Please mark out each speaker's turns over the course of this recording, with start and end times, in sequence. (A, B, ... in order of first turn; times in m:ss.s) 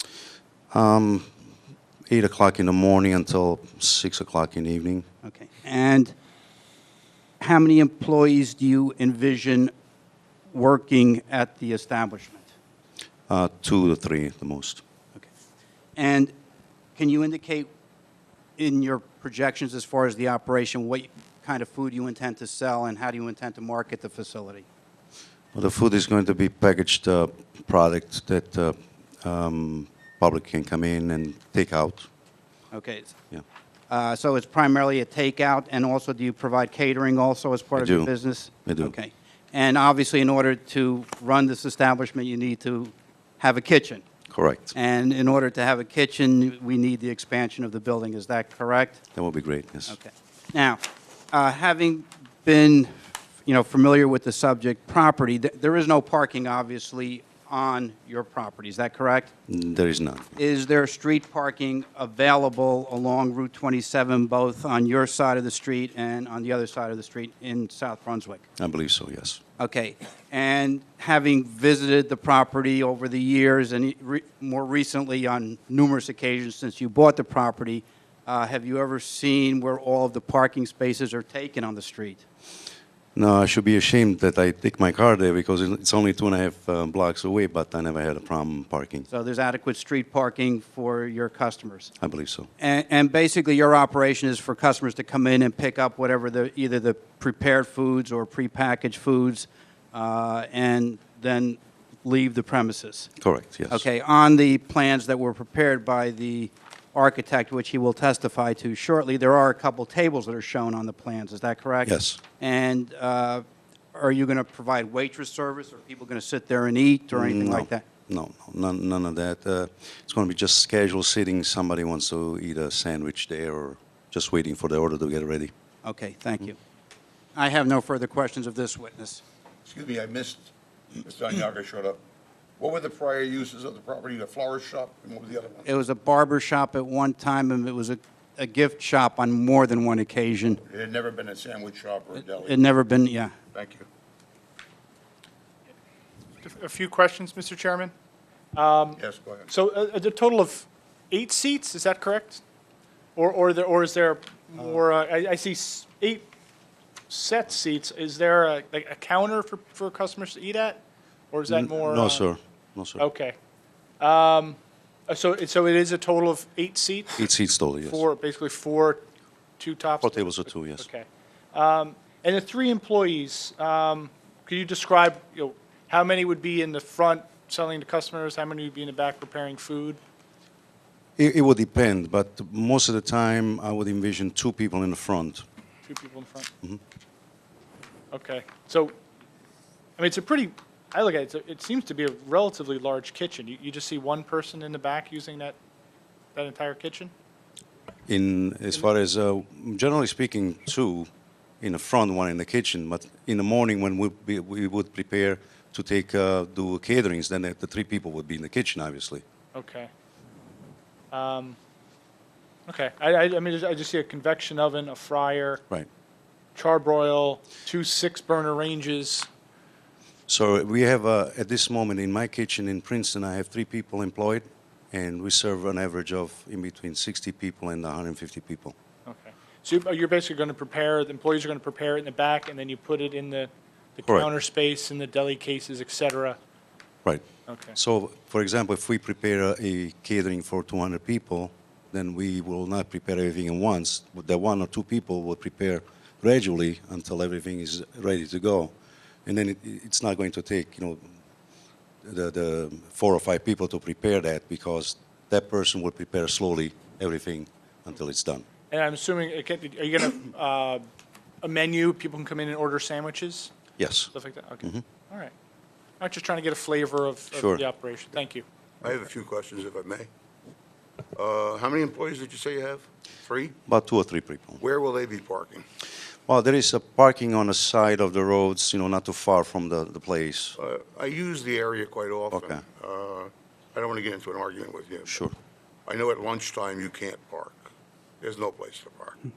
0:00.7-0:01.3 A
0:02.1-0:05.0 A
0:05.2-0:06.1 B
0:07.4-0:09.7 B
0:10.5-0:12.5 B
0:13.3-0:14.8 A
0:16.0-0:16.3 B
0:17.0-0:17.7 B
0:18.6-0:24.6 B
0:25.5-0:32.1 A
0:32.7-0:33.2 B
0:33.9-0:44.0 B
0:37.8-0:38.1 A
0:38.6-0:38.9 A
0:44.3-0:44.7 A
0:44.7-0:49.0 B
0:49.1-0:49.9 A
0:49.9-0:52.9 B
0:53.4-0:59.3 B
0:59.5-1:00.4 A
1:00.4-1:08.4 B
1:08.6-1:09.4 A
1:09.6-1:22.2 B
1:23.1-1:29.1 A
1:29.1-1:31.9 B
1:32.0-1:32.5 A
1:32.6-1:43.1 B
1:43.2-1:43.8 A
1:43.7-1:57.8 B
1:51.8-1:52.2 A
1:57.1-2:05.5 A
2:05.8-2:06.6 B
2:07.3-2:09.2 B
2:09.6-2:12.0 C
2:12.6-2:15.7 C
2:15.6-2:20.6 B
2:20.6-2:22.6 C
2:22.2-2:23.3 B
2:23.5-2:23.9 C
2:26.4-2:27.9 D
2:28.5-2:32.4 D
2:29.0-2:29.5 C
2:33.2-2:36.3 D
2:37.1-2:42.2 D
2:41.5-2:43.0 A
2:43.0-2:43.4 D
2:44.0-2:47.2 D
2:47.2-2:48.0 A
2:47.8-2:49.0 D
2:49.6-3:00.0 D
2:50.0-2:50.8 A
3:01.2-3:05.4 A
3:05.8-3:06.5 D
3:08.1-3:09.0 D
3:10.0-3:15.6 D
3:16.3-3:17.1 D
3:18.1-3:21.1 A
3:21.6-3:29.2 A
3:29.5-3:29.9 D
3:31.1-3:31.6 D
3:32.7-3:35.6 D
3:36.5-3:39.3 D
3:40.3-3:48.7 A
3:49.0-3:56.4 D
3:57.0-4:08.7 A
3:57.5-3:57.8 D
4:09.2-4:11.0 A
4:12.0-4:18.4 A
4:18.7-4:20.8 D
4:21.4-4:23.5 D
4:23.8-4:24.1 A
4:24.1-4:25.3 D
4:26.0-4:28.4 D
4:27.3-4:27.6 A
4:28.8-4:30.1 C
4:31.1-4:33.6 C
4:33.7-4:34.6 A
4:34.6-4:35.6 C
4:36.3-4:40.6 A
4:40.6-4:45.2 C
4:42.3-4:42.6 A
4:45.1-4:45.3 A
4:45.8-4:47.7 C
4:48.2-4:49.2 C